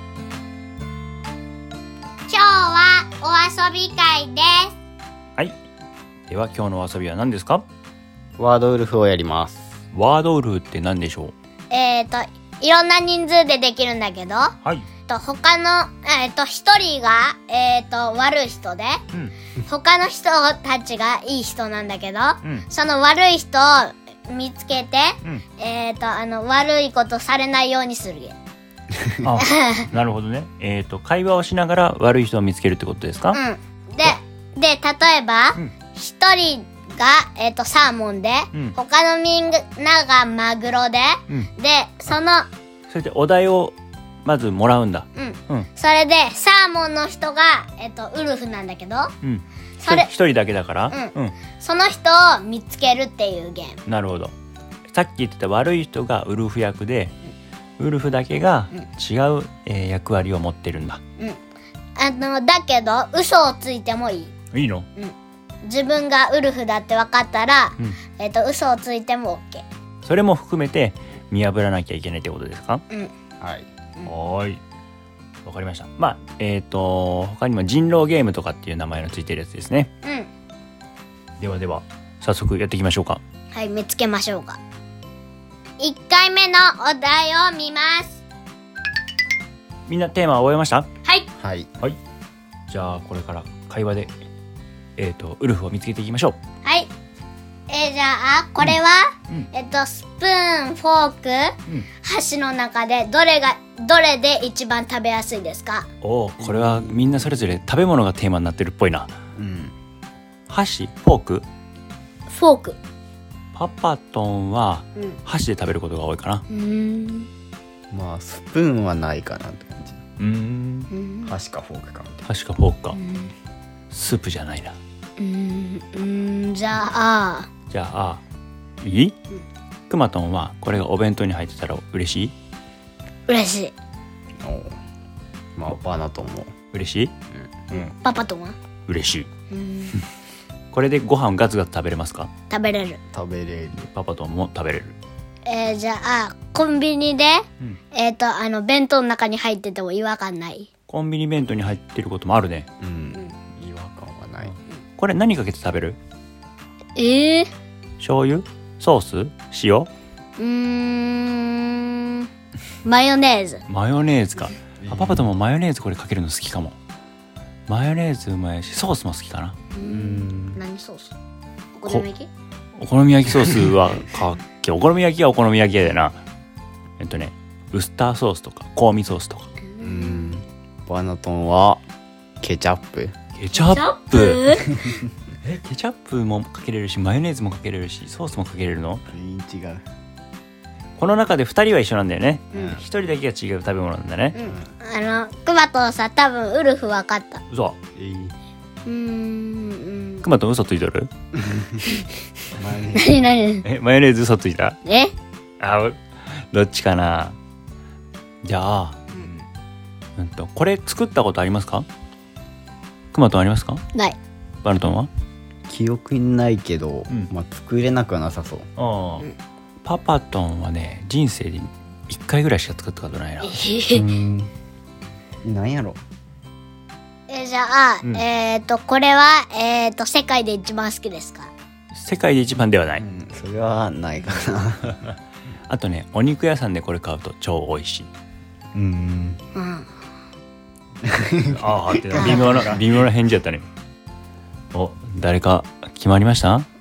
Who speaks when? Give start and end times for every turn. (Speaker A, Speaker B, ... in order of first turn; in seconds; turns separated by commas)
Speaker A: 2.3-4.7, Speaker B: 6.3-7.7, Speaker C: 8.4-9.8, Speaker B: 9.9-11.3, Speaker A: 11.7-14.6, Speaker A: 15.1-19.0, Speaker A: 19.6-28.4, Speaker B: 29.2-33.4, Speaker A: 29.4-29.9, Speaker A: 33.3-42.5, Speaker B: 42.9-45.7, Speaker A: 45.1-49.1, Speaker B: 49.2-51.4, Speaker A: 49.8-50.1, Speaker A: 50.9-53.8, Speaker B: 53.9-54.3, Speaker B: 54.9-57.1, Speaker B: 57.8-61.0, Speaker A: 62.0-64.3, Speaker B: 64.5-64.9, Speaker A: 65.0-69.7, Speaker B: 70.0-72.8, Speaker C: 73.4-73.7, Speaker B: 74.0-74.6, Speaker B: 75.5-79.9, Speaker A: 80.0-80.3, Speaker B: 81.4-83.2, Speaker A: 83.5-84.6, Speaker A: 85.8-88.2, Speaker B: 89.9-90.9, Speaker C: 91.4-91.7, Speaker B: 92.7-94.1, Speaker B: 95.0-96.4, Speaker A: 96.7-96.9, Speaker A: 97.7-105.9, Speaker B: 106.0-109.2, Speaker C: 106.5-106.9, Speaker C: 109.3-109.8, Speaker B: 110.5-111.5, Speaker A: 112.3-112.8, Speaker B: 113.5-116.5, Speaker A: 116.5-117.3, Speaker C: 117.9-120.0, Speaker B: 120.2-120.9, Speaker A: 120.9-121.3, Speaker C: 121.3-122.3, Speaker B: 122.3-123.0, Speaker A: 122.9-123.3, Speaker B: 123.9-124.8, Speaker A: 125.2-127.5, Speaker B: 127.7-128.2, Speaker B: 128.8-129.2, Speaker B: 129.9-132.3, Speaker A: 133.3-133.7, Speaker C: 134.4-134.8, Speaker C: 135.6-136.5, Speaker B: 136.7-137.1, Speaker C: 137.3-137.6, Speaker A: 137.7-138.6, Speaker B: 138.9-139.3, Speaker A: 139.5-140.0, Speaker B: 140.7-142.3, Speaker A: 142.5-143.0, Speaker C: 143.1-143.9, Speaker B: 143.8-145.0, Speaker A: 145.5-150.7, Speaker B: 150.9-152.7, Speaker C: 152.8-154.6, Speaker B: 154.4-156.0, Speaker A: 157.0-157.5, Speaker B: 158.0-159.9, Speaker A: 160.4-162.3, Speaker A: 162.8-163.6, Speaker B: 163.7-166.8, Speaker C: 164.8-165.3, Speaker B: 167.7-169.6, Speaker A: 169.7-171.2, Speaker C: 169.8-170.6, Speaker A: 171.8-172.3, Speaker B: 172.8-176.2, Speaker B: 177.0-179.5, Speaker A: 179.7-180.4, Speaker C: 179.8-181.8, Speaker C: 182.4-183.2, Speaker B: 183.3-184.6, Speaker A: 183.5-184.9, Speaker C: 184.7-185.0, Speaker B: 185.4-189.0, Speaker C: 189.1-189.8, Speaker B: 191.0-194.4, Speaker C: 192.5-192.8, Speaker A: 194.3-197.4, Speaker C: 194.4-194.7, Speaker B: 197.5-197.8, Speaker C: 198.0-198.4, Speaker A: 198.8-200.3, Speaker B: 200.2-201.1, Speaker C: 201.3-202.0, Speaker C: 202.5-203.2, Speaker A: 202.9-203.7, Speaker B: 203.6-204.8, Speaker A: 204.8-205.1, Speaker B: 205.6-207.4, Speaker B: 208.4-209.0, Speaker C: 209.1-209.5, Speaker B: 210.2-211.9, Speaker B: 213.1-213.8, Speaker B: 214.6-215.1, Speaker C: 215.7-218.7, Speaker B: 218.8-219.3, Speaker B: 219.8-223.5, Speaker A: 223.4-224.1, Speaker C: 223.9-224.5, Speaker C: 225.4-226.0, Speaker A: 227.3-231.5, Speaker B: 231.9-233.0, Speaker C: 233.0-235.1, Speaker B: 235.7-238.1, Speaker C: 238.7-239.4, Speaker A: 239.6-239.9, Speaker C: 241.0-242.8, Speaker B: 241.4-243.7, Speaker A: 242.2-242.6, Speaker B: 244.7-246.7